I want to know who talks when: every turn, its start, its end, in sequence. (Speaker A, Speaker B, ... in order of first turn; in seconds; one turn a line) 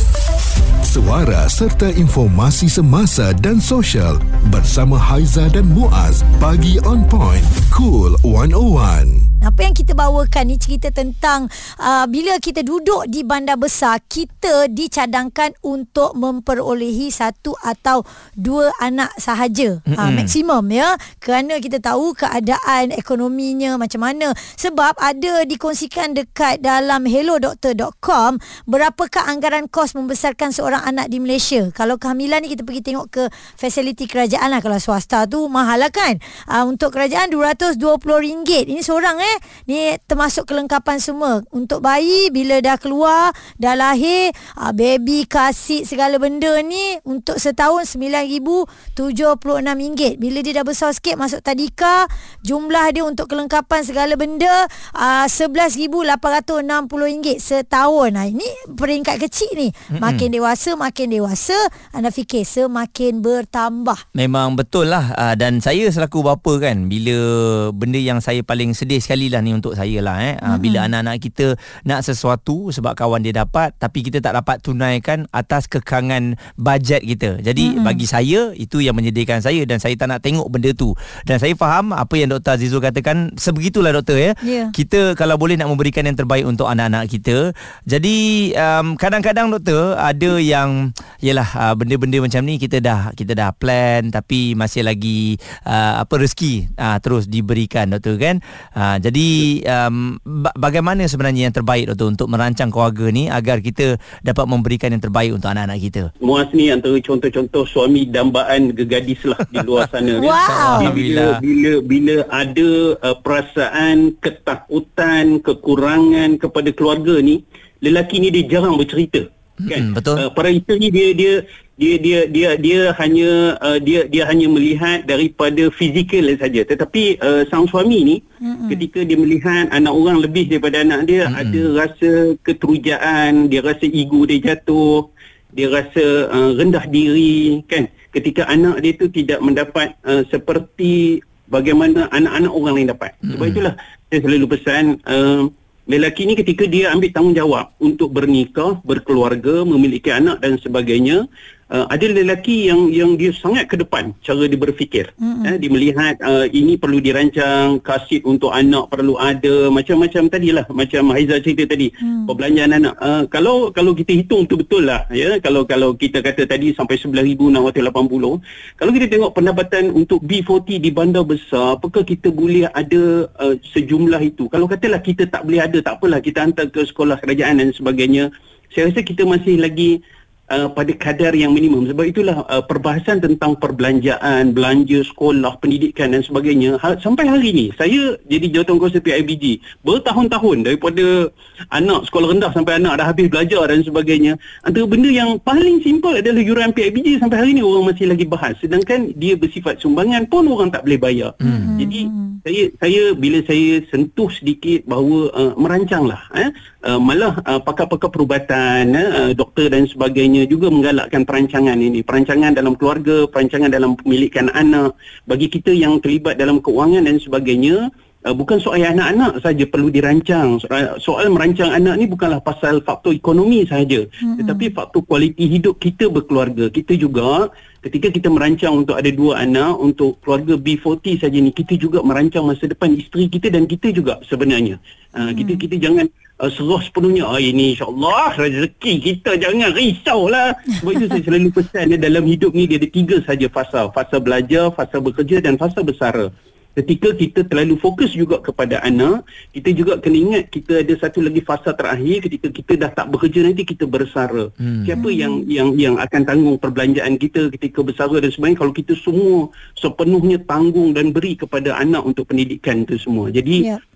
Speaker A: 0.8-9.3
Speaker B: 9.4-64.0
Speaker C: 19.9-20.3
Speaker C: 60.0-60.2
Speaker C: 64.1-106.1
Speaker B: 70.5-70.9
Speaker B: 77.6-78.0
Speaker B: 84.4-84.7
Speaker D: 106.2-179.9
Speaker B: 110.2-110.9
Speaker C: 110.4-111.4
Speaker C: 119.6-120.2
Speaker B: 128.4-128.8
Speaker C: 131.3-131.7
Speaker C: 143.3-143.6
Speaker B: 155.2-155.6
Speaker B: 162.0-162.3
Speaker D: 180.5-263.7
Speaker C: 201.4-201.7
Speaker B: 201.4-202.4
Speaker B: 224.2-224.7
Speaker B: 235.2-235.6
Speaker C: 254.6-255.0
Speaker B: 255.0-255.5